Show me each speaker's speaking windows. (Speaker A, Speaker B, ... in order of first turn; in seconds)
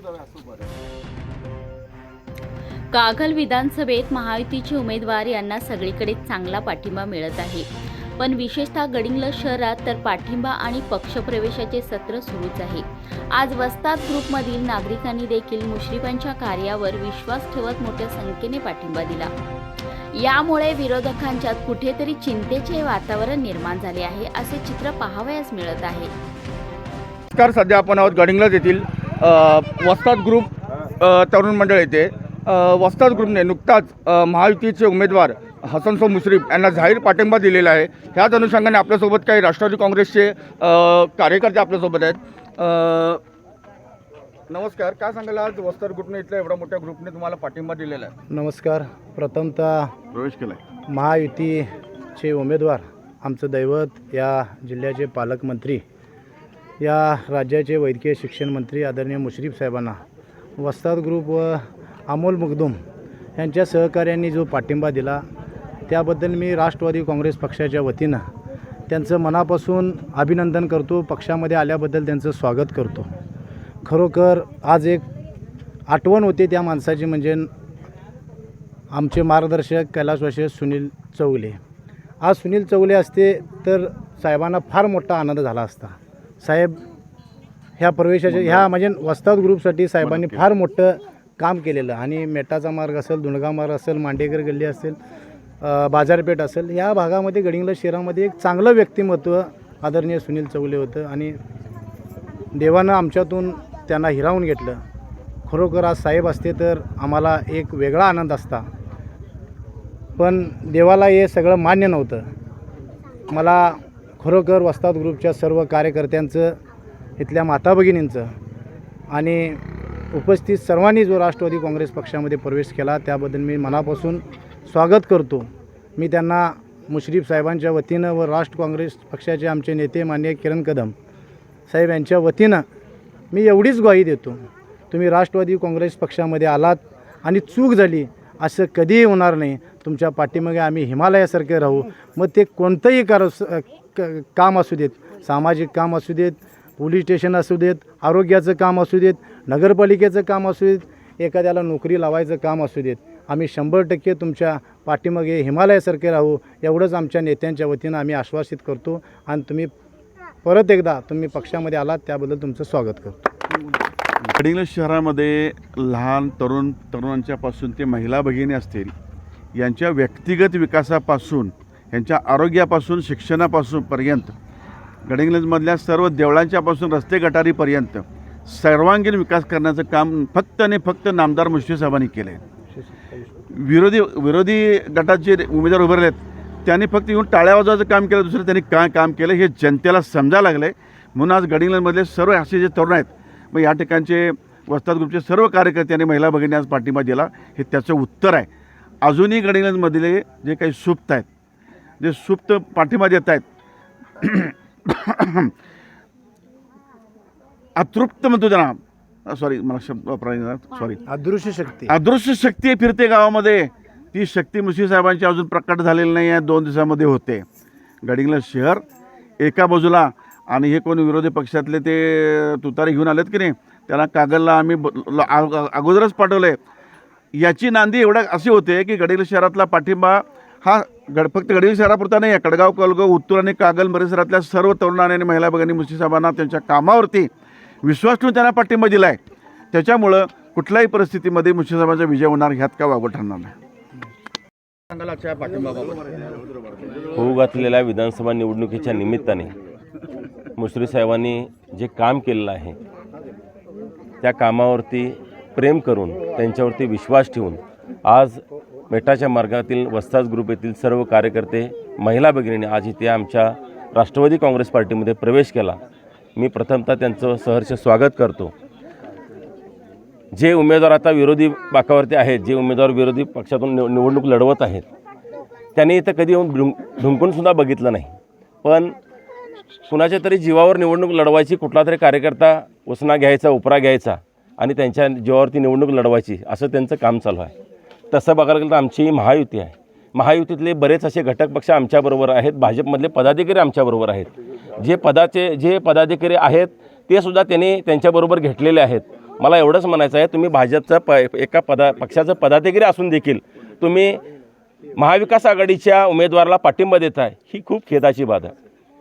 Speaker A: 2.9-7.7, 8.2-19.3, 20.1-26.1
Speaker B: 27.3-43.2, 44.5-48.1, 244.9-246.4
Speaker C: 48.3-49.9, 50.9-55.8, 56.8-60.0, 60.6-62.8, 63.4-65.2, 65.9-68.2, 68.9-73.1, 73.8-75.0, 75.9-77.5, 78.9-81.6, 82.2-86.8, 87.8-95.0, 95.6-101.3, 102.5-104.8, 105.5-108.7, 110.2-112.2, 113.3-116.6, 117.2-118.3, 119.1-130.9, 131.7-132.6, 133.3-134.4, 134.9-159.7, 160.4-163.3, 182.7-183.3, 211.1-211.9
Speaker D: 50.1-50.6, 88.3-88.7, 90.0-90.4, 164.2-168.9, 169.5-174.3, 175.1-182.4, 183.5-198.5, 199.0-201.3, 202.0-203.4, 204.2-205.5, 207.8-211.0, 211.9-217.4, 218.0-218.8, 219.4-226.6, 227.3-237.3, 237.8-239.2, 239.7-243.5
Speaker E: 247.1-249.5, 250.6-252.8, 254.2-265.8, 266.4-268.5, 270.3-274.9, 275.7-278.9, 279.9-287.5, 288.1-304.2, 305.0-308.5